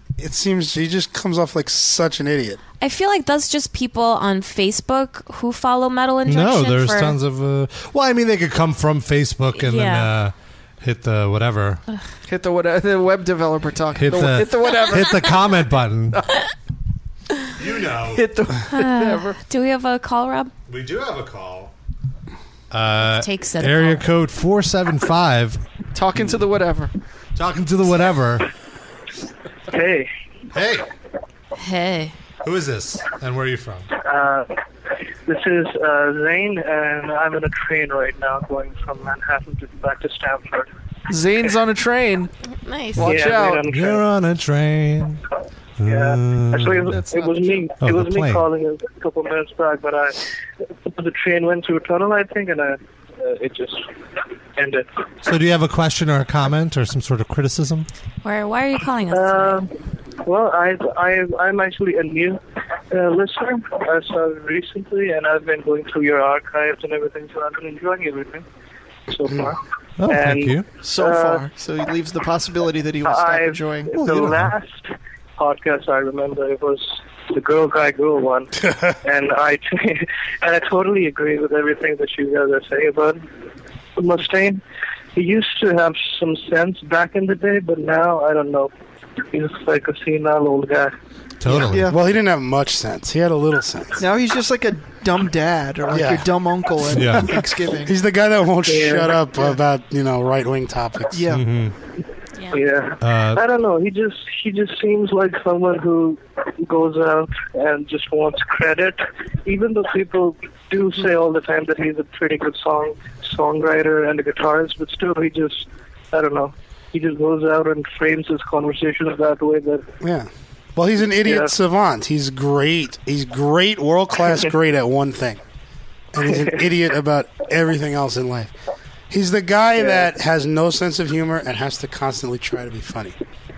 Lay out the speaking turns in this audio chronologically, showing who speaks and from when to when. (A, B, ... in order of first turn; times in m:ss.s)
0:00.2-0:02.6 A
0:02.8-0:07.2 B
0:06.2-0:11.8 C
0:09.6-0:10.1 B
0:12.3-0:15.4 D
0:14.0-0:16.2 C
0:16.1-0:16.4 D
0:17.6-0:18.3 C
0:18.1-0:19.4 D
0:18.7-0:20.5 B
0:20.7-0:21.7 C
0:22.7-0:25.6 C
0:23.0-0:24.0 B
0:25.9-0:26.9 D
0:27.4-0:28.5 C
0:29.7-0:30.1 E
0:30.5-0:30.8 C
0:31.6-0:32.1 B
0:32.4-0:33.9 C
0:34.0-0:34.5 E
0:35.3-0:40.7 E
0:41.1-0:42.3 D
0:42.5-0:43.2 B
0:43.0-0:43.7 D
0:43.0-0:44.0 E
0:43.7-0:45.2 C
0:45.8-0:47.3 C
0:45.9-0:50.3 E
0:47.8-0:48.4 C
0:50.8-0:53.9 E
0:54.6-0:54.9 E
0:55.2-0:57.9 C
0:58.2-0:59.6 B
0:59.1-0:59.7 E
1:00.2-1:02.4 E
1:02.9-1:08.4 E
1:09.1-1:11.4 E
1:10.0-1:10.6 C
1:10.8-1:13.9 D
1:13.0-1:23.2 E
1:14.0-1:14.5 C
1:18.6-1:19.0 A
1:24.0-1:24.6 E
1:25.1-1:28.7 E
1:29.3-1:30.9 E
1:31.4-1:31.9 C
1:31.5-1:32.0 D
1:31.9-1:34.0 A
1:34.0-1:37.9 D
1:35.9-1:36.3 A
1:36.9-1:37.4 C
1:37.8-1:41.3 A
1:38.6-1:39.4 E
1:41.1-1:41.4 D
1:41.3-1:41.7 C
1:42.5-1:59.8 E
1:43.0-1:43.4 C
2:00.0-2:05.4 A
2:01.2-2:01.5 E
2:06.1-2:08.5 A
2:06.3-2:06.5 E
2:09.1-2:13.2 A
2:09.8-2:10.0 E